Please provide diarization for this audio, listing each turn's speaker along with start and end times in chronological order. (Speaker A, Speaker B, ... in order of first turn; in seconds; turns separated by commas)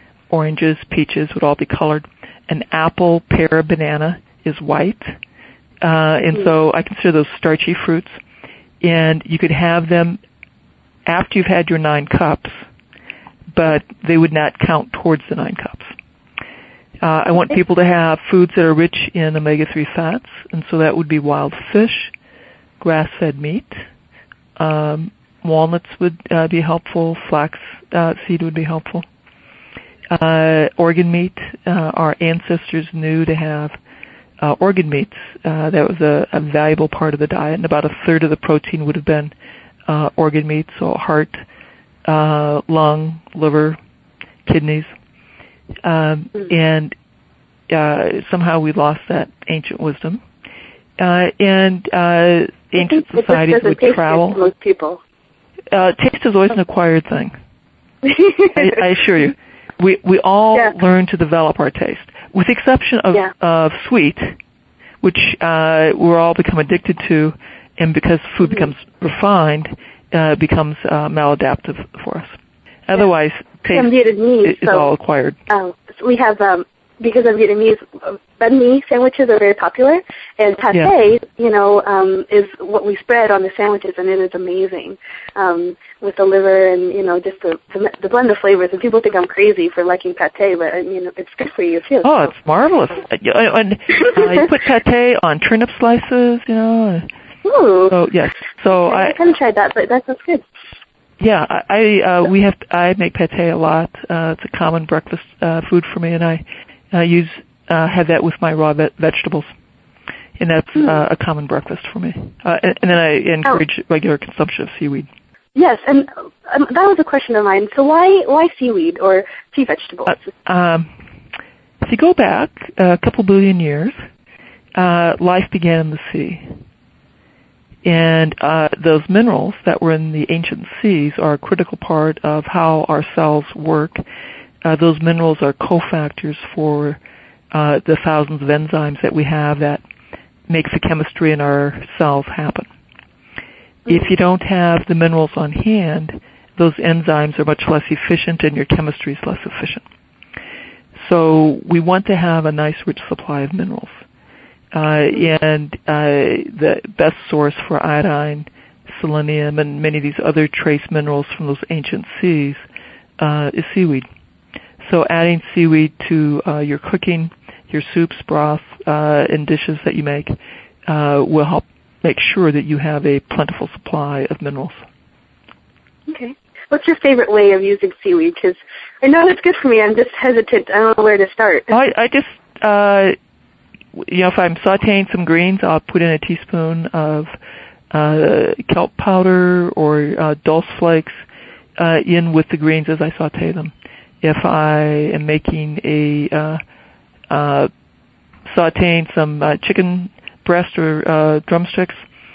Speaker A: 0.3-5.2, Speaker A: 5.8-8.2, Speaker A: 8.8-10.2, Speaker A: 11.1-12.6, Speaker A: 13.5-15.9, Speaker A: 17.0-22.1, Speaker A: 22.8-23.8, Speaker A: 24.6-29.1, Speaker A: 30.1-33.8, Speaker A: 34.4-39.3, Speaker A: 39.9-41.4, Speaker A: 42.0-43.8, Speaker A: 44.5-44.9, Speaker A: 45.8-47.0, Speaker A: 47.7-50.2, Speaker A: 51.0-54.4, Speaker B: 52.8-55.0, Speaker A: 55.7-57.3, Speaker B: 58.0-58.6, Speaker A: 58.5-64.3, Speaker A: 65.0-72.3, Speaker A: 72.9-73.9, Speaker B: 73.7-74.9, Speaker A: 74.4-75.4, Speaker B: 75.5-92.3, Speaker A: 92.0-97.1, Speaker B: 97.4-98.0, Speaker A: 97.9-99.2, Speaker B: 98.8-100.5, Speaker A: 101.2-109.5, Speaker A: 110.4-115.1, Speaker B: 115.5-120.2, Speaker A: 120.1-120.9, Speaker A: 121.8-124.0, Speaker A: 124.8-126.5, Speaker A: 127.8-134.0, Speaker A: 134.6-137.0, Speaker A: 137.5-139.8, Speaker A: 140.5-142.7, Speaker A: 143.8-149.8, Speaker A: 151.0-154.0, Speaker A: 154.7-162.6, Speaker A: 163.2-164.1, Speaker A: 164.8-174.8, Speaker B: 176.1-181.7, Speaker A: 181.7-183.2, Speaker A: 183.9-187.3, Speaker A: 187.9-191.2, Speaker A: 191.8-196.6, Speaker A: 197.3-197.7, Speaker A: 198.5-202.0